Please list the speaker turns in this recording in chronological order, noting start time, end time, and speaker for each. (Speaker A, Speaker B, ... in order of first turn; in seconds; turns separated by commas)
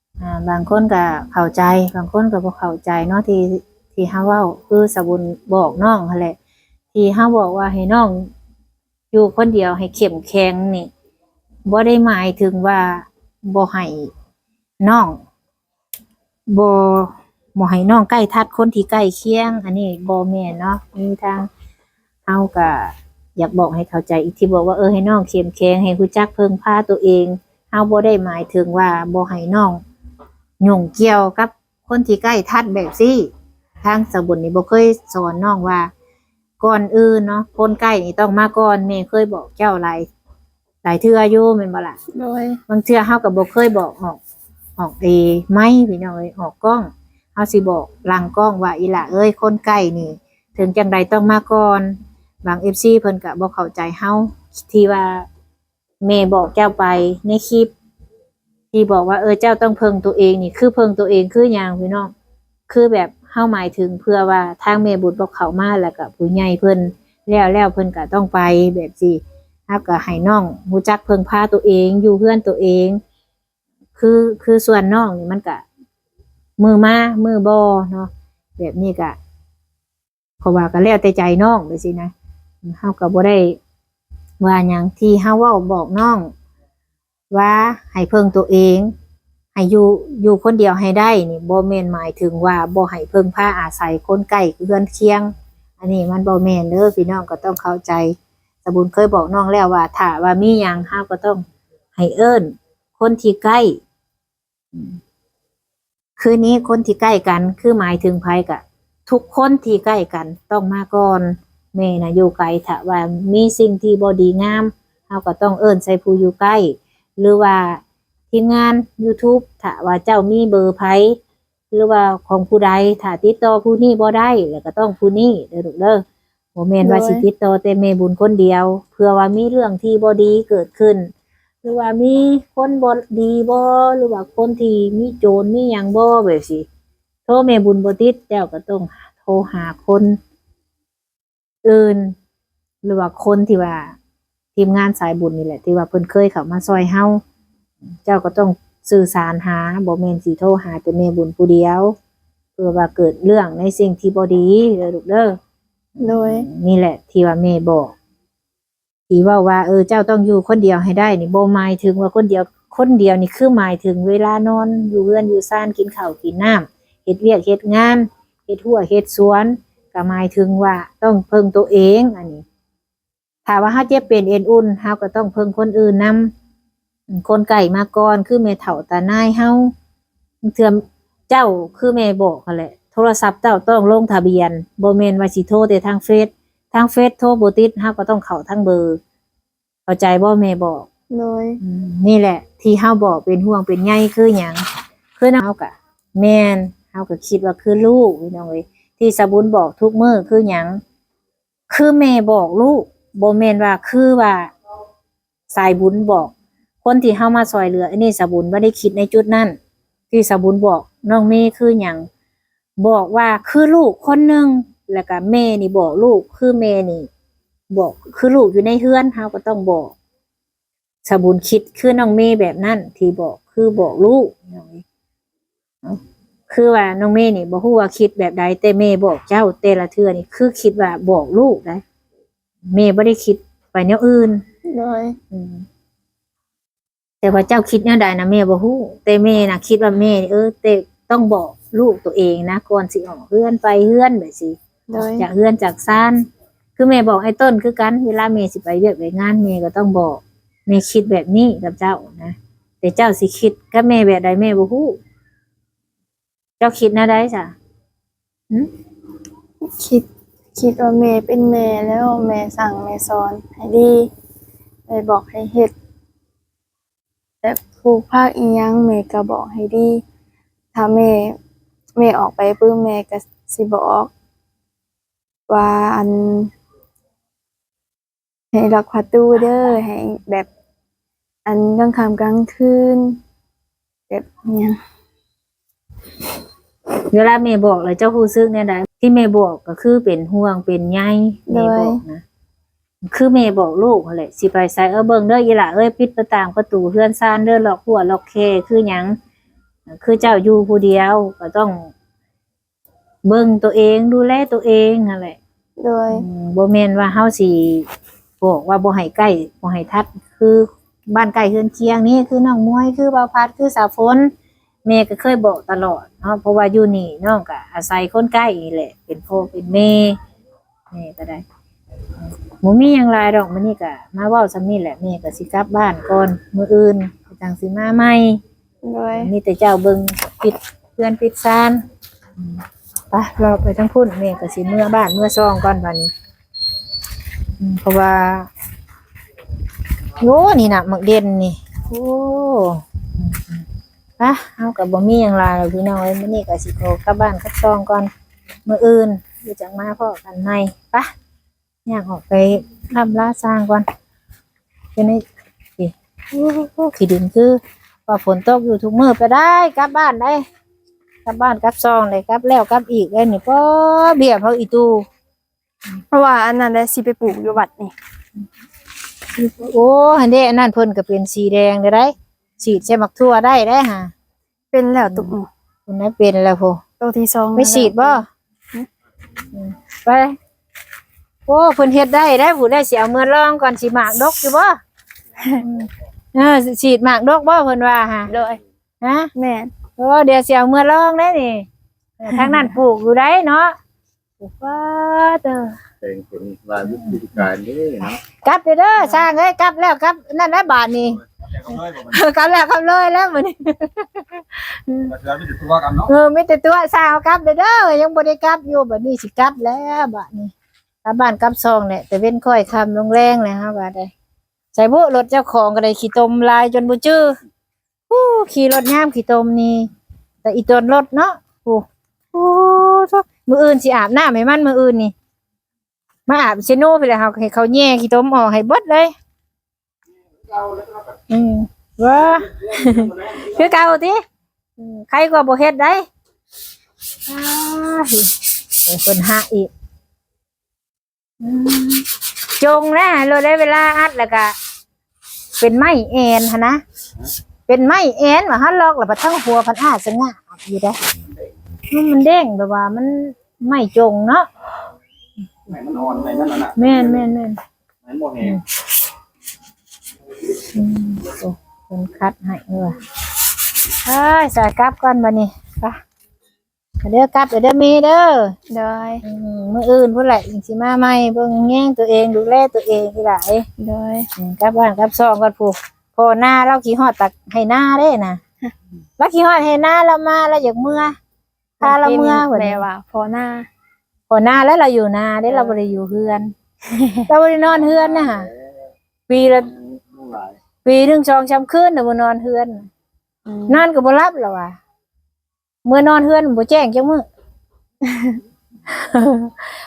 Speaker A: 0.2-6.4, Speaker A: 6.9-8.3, Speaker A: 9.1-10.9, Speaker A: 11.7-14.1, Speaker A: 14.8-15.2, Speaker A: 16.5-21.5, Speaker A: 22.3-29.8, Speaker A: 30.6-33.3, Speaker A: 33.8-35.9, Speaker A: 36.6-40.1, Speaker A: 40.8-42.0, Speaker B: 42.1-42.6, Speaker A: 42.7-44.2, Speaker A: 44.8-55.3, Speaker A: 56.0-57.7, Speaker A: 58.7-62.1, Speaker A: 62.7-73.0, Speaker A: 74.0-75.7, Speaker A: 76.6-79.2, Speaker A: 80.4-82.1, Speaker A: 82.7-83.6, Speaker A: 84.4-86.3, Speaker A: 87.3-88.9, Speaker A: 89.5-101.4, Speaker A: 102.0-103.8, Speaker A: 106.2-121.2, Speaker A: 121.7-126.0, Speaker A: 126.5-131.1, Speaker B: 126.8-127.3, Speaker A: 131.6-136.7, Speaker A: 137.3-140.2, Speaker A: 141.6-142.2, Speaker A: 142.8-144.0, Speaker A: 144.6-147.2, Speaker A: 148.1-151.9, Speaker A: 152.6-155.4, Speaker A: 156.0-157.9, Speaker B: 156.0-156.5, Speaker A: 159.1-172.4, Speaker A: 173.5-176.3, Speaker A: 177.1-179.7, Speaker A: 180.4-189.0, Speaker A: 189.9-190.9, Speaker B: 191.1-191.6, Speaker A: 191.6-200.8, Speaker A: 201.7-204.5, Speaker A: 205.5-206.3, Speaker A: 206.8-209.6, Speaker A: 210.1-212.1, Speaker A: 212.8-217.1, Speaker A: 217.7-219.9, Speaker A: 221.1-224.8, Speaker A: 225.8-231.8, Speaker A: 232.7-234.4, Speaker B: 234.7-235.2, Speaker A: 235.3-235.7, Speaker A: 237.2-255.0, Speaker B: 244.9-245.3, Speaker A: 256.6-257.6, Speaker B: 259.6-264.1, Speaker B: 264.9-265.7, Speaker B: 267.4-270.0, Speaker B: 270.7-271.4, Speaker B: 272.0-274.1, Speaker B: 275.5-276.5, Speaker B: 278.5-280.5, Speaker B: 281.4-283.2, Speaker B: 284.1-284.8, Speaker A: 287.1-292.2, Speaker B: 291.5-292.0, Speaker A: 293.0-299.2, Speaker A: 299.9-301.9, Speaker A: 303.2-305.4, Speaker B: 305.8-306.3, Speaker A: 306.1-307.9, Speaker A: 308.4-314.3, Speaker A: 314.9-320.2, Speaker A: 320.9-321.4, Speaker A: 322.2-328.4, Speaker B: 328.8-329.3, Speaker A: 329.1-331.8, Speaker A: 332.4-336.1, Speaker A: 337.6-338.5, Speaker A: 340.2-343.6, Speaker A: 344.2-348.1, Speaker A: 348.7-351.1, Speaker A: 351.9-353.9, Speaker A: 354.9-355.2, Speaker A: 355.8-360.4, Speaker A: 361.2-365.1, Speaker B: 366.1-367.9, Speaker A: 369.4-374.1, Speaker B: 374.7-375.5, Speaker A: 375.1-375.4, Speaker A: 375.9-376.8, Speaker B: 377.0-378.2, Speaker A: 377.6-378.3, Speaker A: 379.5-380.4, Speaker A: 381.5-384.8, Speaker A: 385.6-388.3, Speaker B: 388.3-388.6, Speaker A: 389.0-389.3, Speaker B: 389.4-389.7, Speaker A: 390.0-391.7, Speaker A: 392.2-393.7, Speaker A: 394.4-395.8, Speaker C: 396.0-398.0, Speaker A: 396.8-414.1, Speaker A: 414.7-417.3, Speaker A: 418.1-419.9, Speaker A: 420.4-425.1, Speaker A: 426.3-429.1, Speaker A: 431.3-434.2, Speaker A: 434.8-436.1, Speaker A: 437.3-438.3, Speaker A: 438.9-439.7, Speaker A: 441.4-444.6, Speaker A: 445.6-446.8, Speaker A: 447.7-451.0, Speaker A: 451.9-454.5, Speaker A: 455.7-457.6, Speaker A: 458.3-458.6, Speaker A: 460.6-463.0, Speaker A: 464.0-466.0, Speaker A: 467.0-468.5, Speaker B: 468.7-469.2, Speaker A: 469.2-473.7, Speaker B: 473.8-474.3, Speaker A: 474.4-478.4, Speaker A: 479.2-481.2, Speaker B: 481.8-483.7, Speaker A: 481.8-482.9, Speaker A: 484.3-486.5, Speaker B: 485.5-485.8, Speaker B: 486.9-487.2, Speaker A: 487.2-488.5, Speaker A: 489.3-489.8, Speaker A: 490.8-492.9, Speaker B: 493.5-493.8, Speaker A: 493.7-494.8, Speaker A: 495.9-497.2, Speaker B: 498.0-498.4, Speaker A: 498.9-499.7